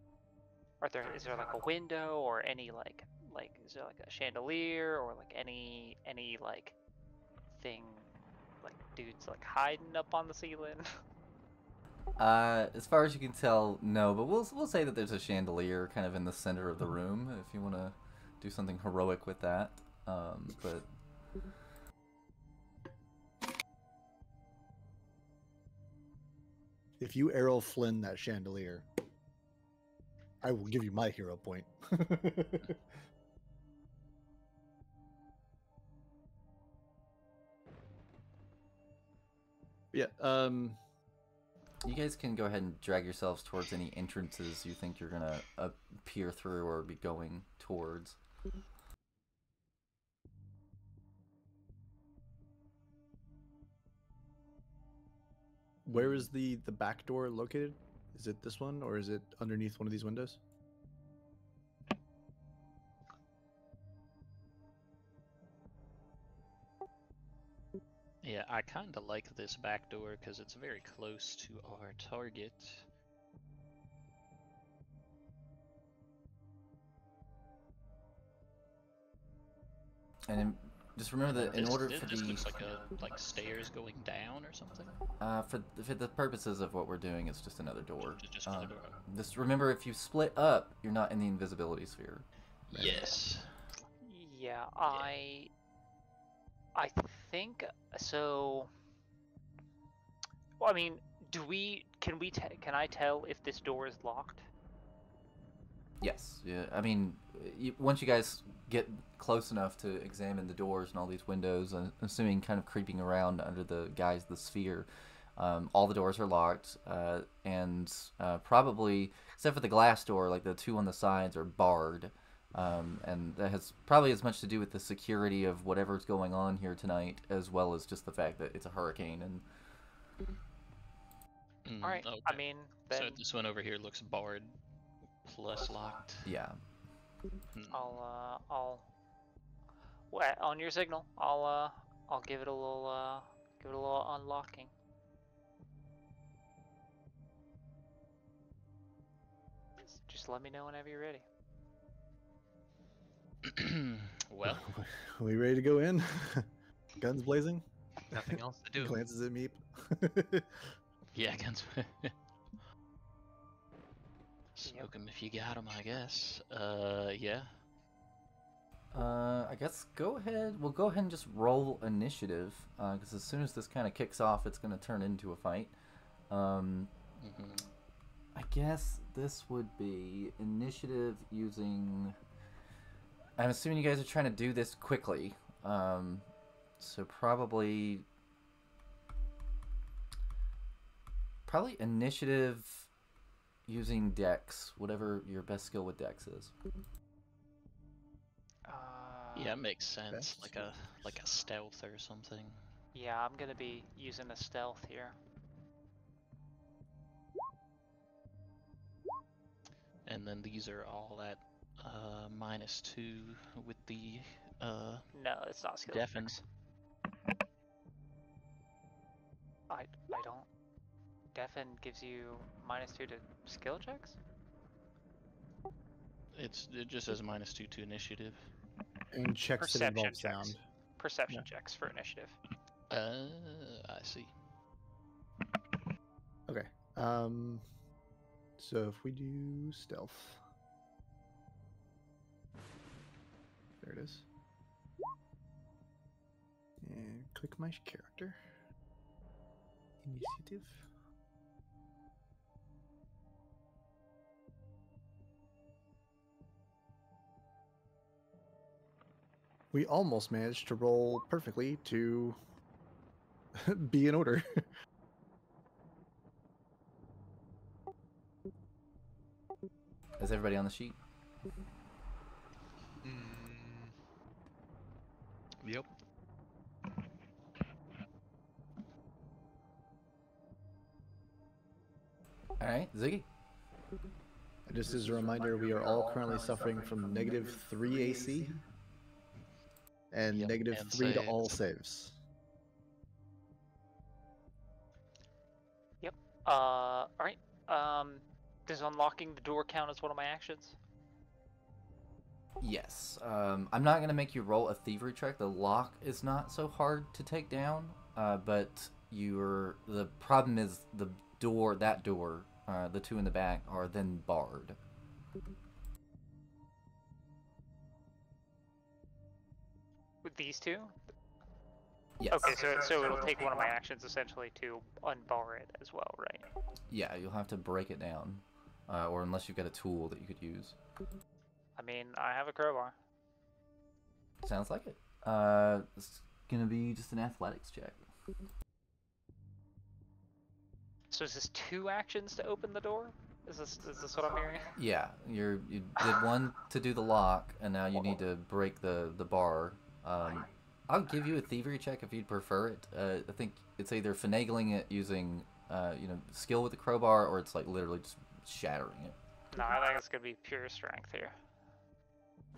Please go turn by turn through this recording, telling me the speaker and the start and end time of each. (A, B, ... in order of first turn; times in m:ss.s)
0:00.8-0:06.8 A
0:07.6-0:08.1 A
0:08.6-0:10.9 A
0:12.2-0:20.8 B
0:27.0-0:28.9 C
0:30.4-0:32.8 C
0:39.9-0:40.8 C
0:41.8-0:48.2 B
0:55.8-1:00.4 C
0:55.9-0:56.2 D
1:08.2-1:12.9 D
1:20.3-1:22.5 B
1:21.3-1:25.0 D
1:25.2-1:32.2 B
1:28.1-1:29.0 D
1:32.7-1:33.6 D
1:32.7-1:33.0 C
1:34.0-1:35.5 A
1:36.7-1:38.7 A
1:40.6-1:44.4 A
1:46.0-2:09.4 B
2:11.6-2:14.6 D
2:11.8-2:13.2 A
2:15.2-2:16.3 D
2:16.2-2:16.6 B
2:17.5-2:18.0 D
2:17.7-2:18.9 A
2:20.1-2:24.7 A
2:29.9-2:31.2 A
2:33.4-2:34.7 D
2:34.4-2:37.6 C
2:38.1-2:39.0 E
2:38.2-2:40.7 C
2:41.1-2:42.1 D
2:44.6-2:47.6 D
2:48.9-2:55.7 B
2:56.3-2:56.9 B
2:57.2-2:57.7 D
2:58.3-3:02.2 B
3:03.4-3:06.2 B
3:06.8-3:08.0 B
3:11.5-3:12.9 B
3:13.7-3:16.5 B
3:18.6-3:19.6 A
3:19.3-3:22.7 D
3:20.1-3:21.2 C
3:22.9-3:25.2 A
3:30.0-3:35.1 D
3:35.1-3:36.4 A
3:35.9-3:36.4 D
3:39.7-3:40.5 A
3:41.3-3:44.2 A
3:46.3-3:48.5 D
3:49.1-3:50.6 C
3:49.6-3:52.4 A
3:52.9-3:54.4 D
3:56.5-3:57.6 C
3:58.6-4:00.4 C
4:03.8-4:04.2 C
4:06.8-4:08.4 C
4:10.0-4:10.9 C
4:19.7-4:22.4 C
4:23.5-4:24.7 C
4:30.2-4:31.0 B
4:33.0-4:33.9 E
4:35.6-4:35.9 E
4:42.6-4:43.2 B
4:44.6-4:48.6 C
4:50.1-4:52.2 C
4:50.3-4:51.6 D
4:56.0-5:00.8 A
5:02.6-5:14.8 B
5:20.2-5:21.0 A
5:22.2-5:22.6 B
5:22.3-5:26.4 A
5:26.9-5:30.8 B
5:31.8-5:33.0 A
5:34.4-5:38.0 B
5:41.1-5:44.7 A
5:44.8-5:59.1 B
5:59.5-6:01.3 A